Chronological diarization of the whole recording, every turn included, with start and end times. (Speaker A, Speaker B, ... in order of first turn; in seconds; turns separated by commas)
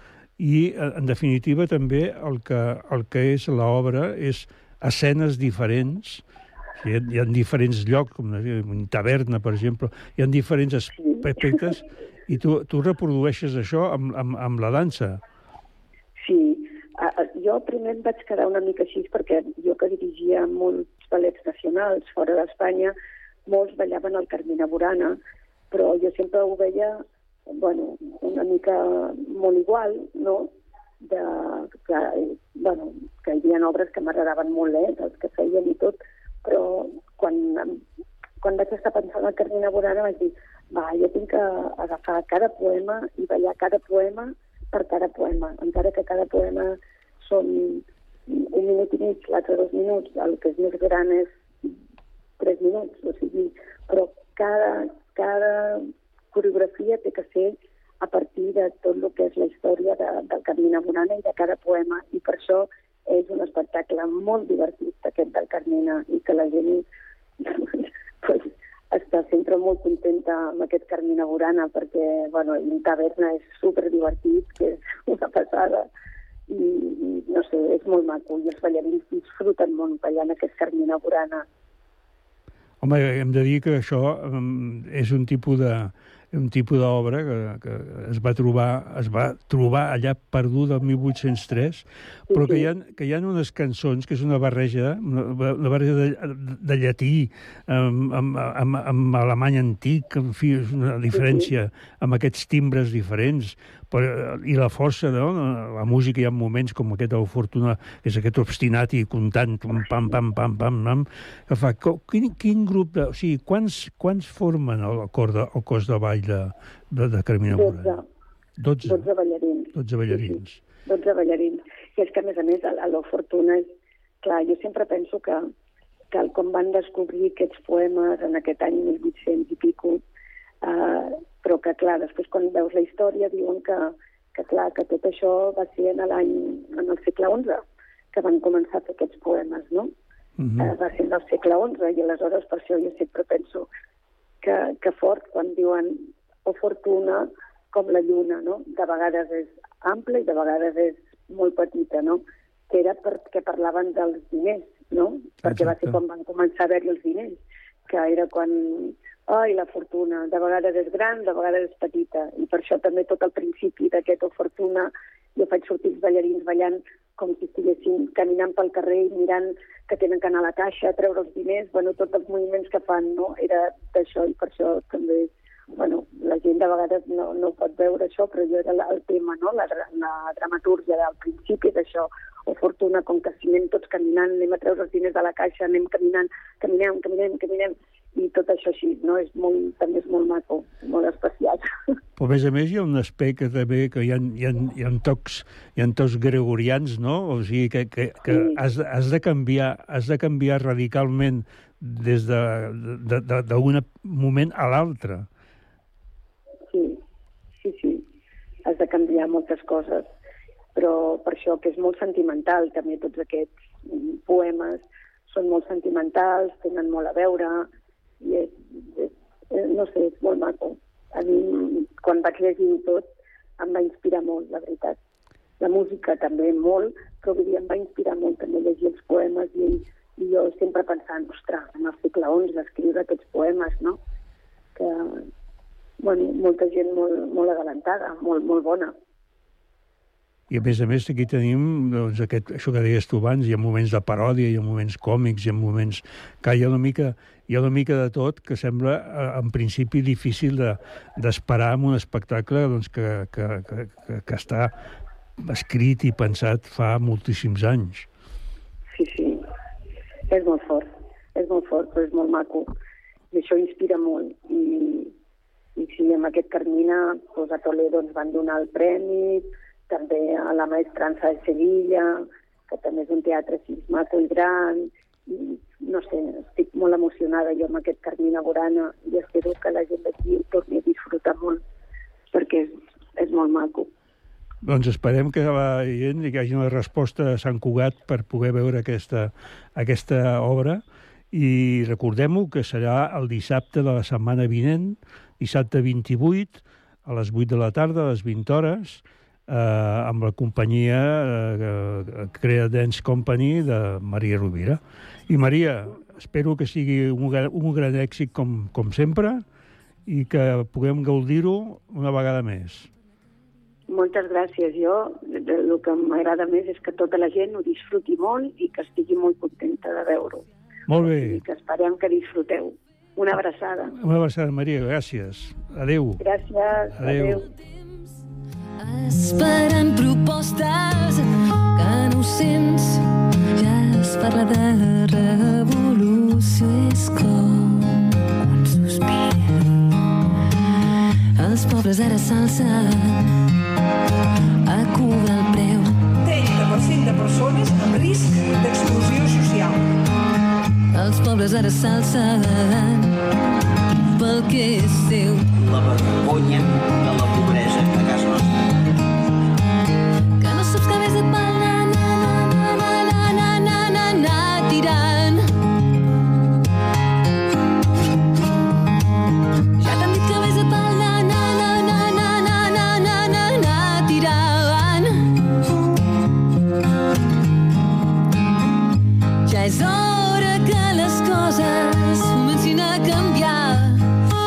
Speaker A: 0.4-6.2, Speaker A: 6.8-15.2, Speaker B: 11.0-11.7, Speaker B: 16.2-22.9, Speaker B: 23.5-25.2, Speaker B: 25.7-30.5, Speaker B: 31.0-37.8, Speaker B: 38.4-51.7, Speaker B: 52.4-66.8, Speaker B: 67.4-75.9, Speaker B: 76.5-81.5, Speaker A: 82.8-118.0, Speaker B: 92.3-92.7, Speaker B: 101.1-101.5, Speaker B: 117.5-118.0, Speaker A: 118.6-119.1, Speaker B: 118.9-123.7, Speaker A: 119.7-120.6, Speaker B: 124.2-125.5, Speaker B: 126.1-130.0, Speaker B: 130.6-137.6, Speaker B: 138.1-139.9, Speaker A: 140.4-140.7, Speaker B: 140.6-143.7, Speaker B: 144.4-191.6, Speaker A: 155.4-156.0, Speaker A: 192.2-205.3, Speaker B: 198.3-198.6, Speaker B: 206.7-207.0, Speaker B: 207.6-208.1, Speaker B: 208.7-210.1, Speaker B: 210.8-217.7, Speaker B: 218.2-223.1, Speaker B: 223.6-225.0, Speaker B: 225.6-234.0, Speaker B: 234.8-235.2, Speaker B: 236.0-238.9, Speaker A: 240.5-254.8, Speaker A: 255.4-258.1, Speaker B: 258.9-259.4, Speaker B: 260.3-262.7, Speaker B: 263.3-265.1, Speaker B: 265.8-281.6, Speaker B: 282.3-283.9, Speaker A: 284.6-309.4, Speaker A: 310.1-312.9, Speaker B: 313.9-324.0, Speaker A: 320.9-321.4, Speaker A: 324.0-326.2, Speaker B: 326.2-327.5, Speaker A: 327.0-327.5, Speaker C: 328.8-333.0, Speaker C: 333.6-339.6, Speaker C: 341.4-343.3, Speaker C: 344.6-346.1, Speaker D: 346.2-349.8, Speaker C: 350.9-353.2, Speaker C: 354.1-355.5, Speaker E: 355.6-358.6, Speaker C: 360.4-365.5, Speaker C: 369.8-375.3, Speaker C: 379.5-384.1